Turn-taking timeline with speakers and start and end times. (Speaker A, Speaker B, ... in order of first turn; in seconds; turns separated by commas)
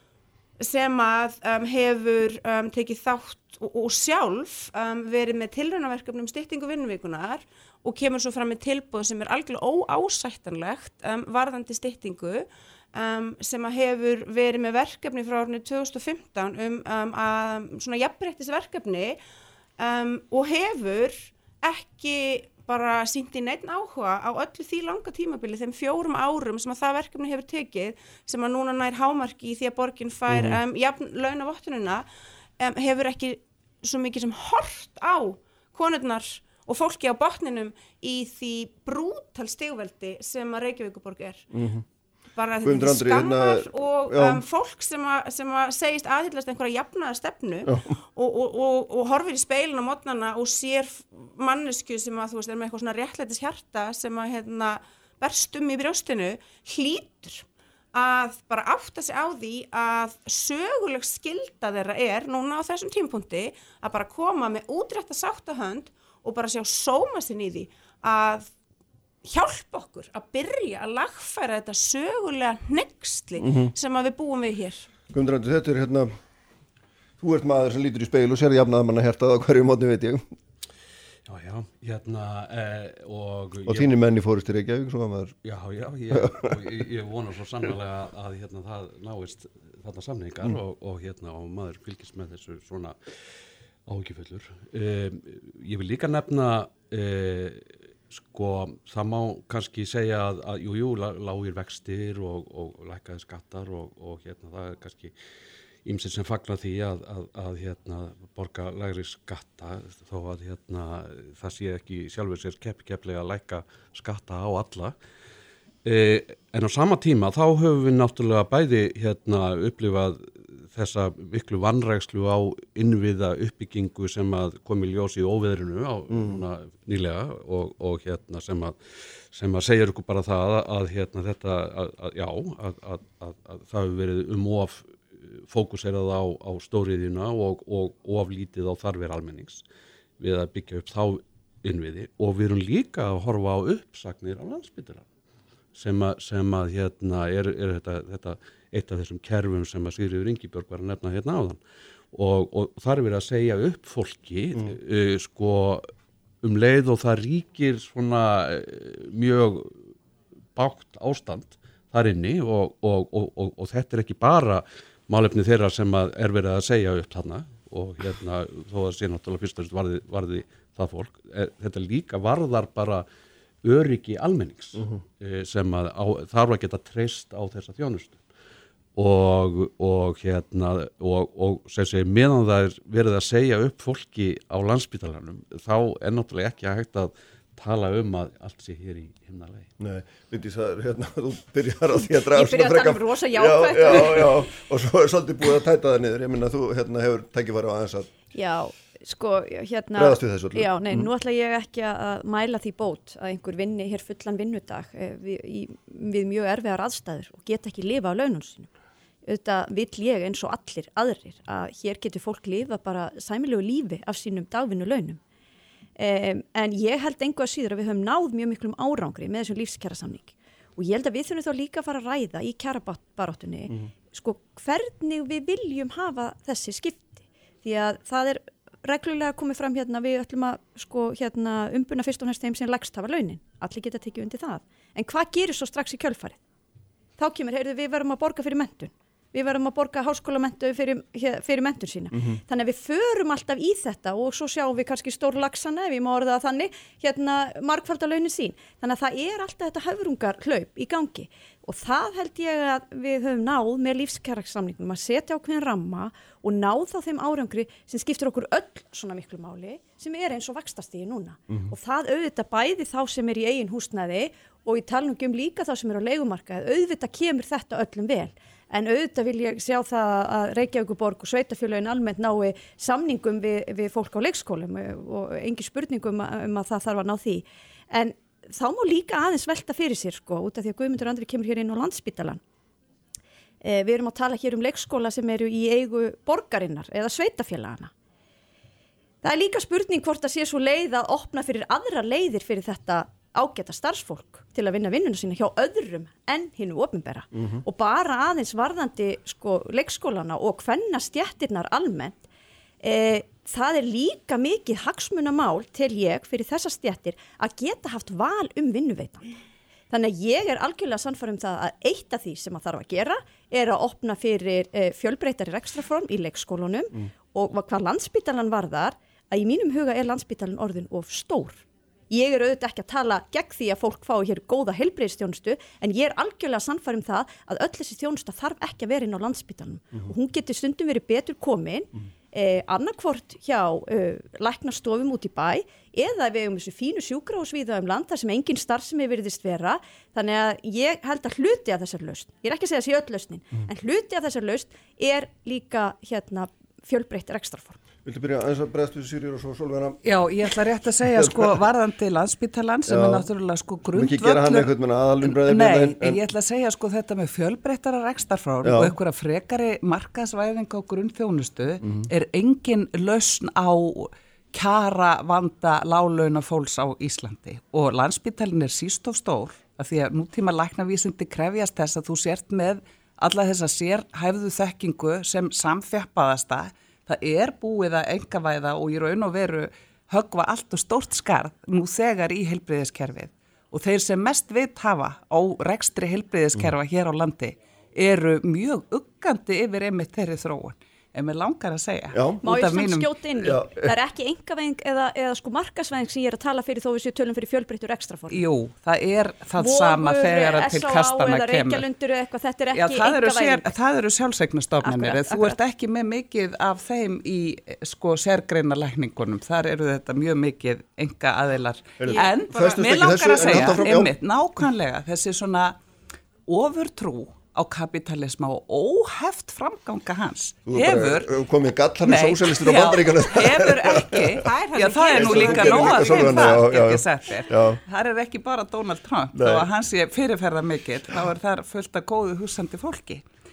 Speaker A: 0.6-19.2, Speaker A: 19.8-32.0, Speaker B: 30.3-30.6, Speaker A: 32.6-41.5, Speaker B: 41.5-41.9, Speaker A: 42.4-68.5, Speaker B: 42.6-44.4, Speaker B: 47.6-47.9, Speaker A: 69.2-74.9, Speaker B: 73.4-73.7, Speaker B: 75.1-76.1, Speaker B: 77.2-80.2, Speaker C: 81.3-83.9, Speaker B: 83.7-85.4, Speaker C: 85.4-93.0, Speaker B: 86.1-86.6, Speaker C: 93.9-105.1, Speaker C: 105.8-115.0, Speaker C: 115.8-139.6, Speaker B: 126.1-126.4, Speaker C: 140.2-145.1, Speaker C: 145.8-151.6, Speaker C: 152.1-155.9, Speaker C: 156.4-159.9, Speaker C: 160.6-173.1, Speaker C: 173.6-178.2, Speaker B: 174.8-175.0, Speaker C: 179.0-189.7, Speaker B: 189.8-198.1, Speaker D: 192.3-194.5, Speaker D: 198.3-208.7, Speaker B: 199.9-201.1, Speaker D: 209.3-215.2, Speaker D: 216.0-236.4, Speaker D: 237.2-282.4, Speaker B: 242.1-242.4, Speaker B: 261.5-261.8, Speaker D: 283.6-287.9, Speaker D: 289.2-302.2, Speaker B: 297.3-297.6, Speaker D: 302.8-309.3, Speaker D: 309.9-347.8, Speaker B: 348.1-350.0, Speaker E: 350.0-354.7, Speaker B: 351.1-351.6, Speaker B: 352.9-353.3, Speaker B: 353.9-356.2, Speaker E: 355.2-393.2, Speaker B: 358.6-358.9, Speaker B: 392.1-392.4, Speaker D: 392.4-398.5, Speaker B: 393.4-393.9, Speaker E: 398.3-401.9, Speaker D: 399.6-403.7, Speaker E: 402.7-415.8, Speaker D: 404.8-405.6, Speaker B: 412.0-414.1, Speaker E: 416.5-421.3, Speaker B: 420.7-424.4, Speaker E: 422.0-433.2, Speaker A: 424.4-426.5, Speaker B: 425.1-427.8, Speaker B: 429.3-429.7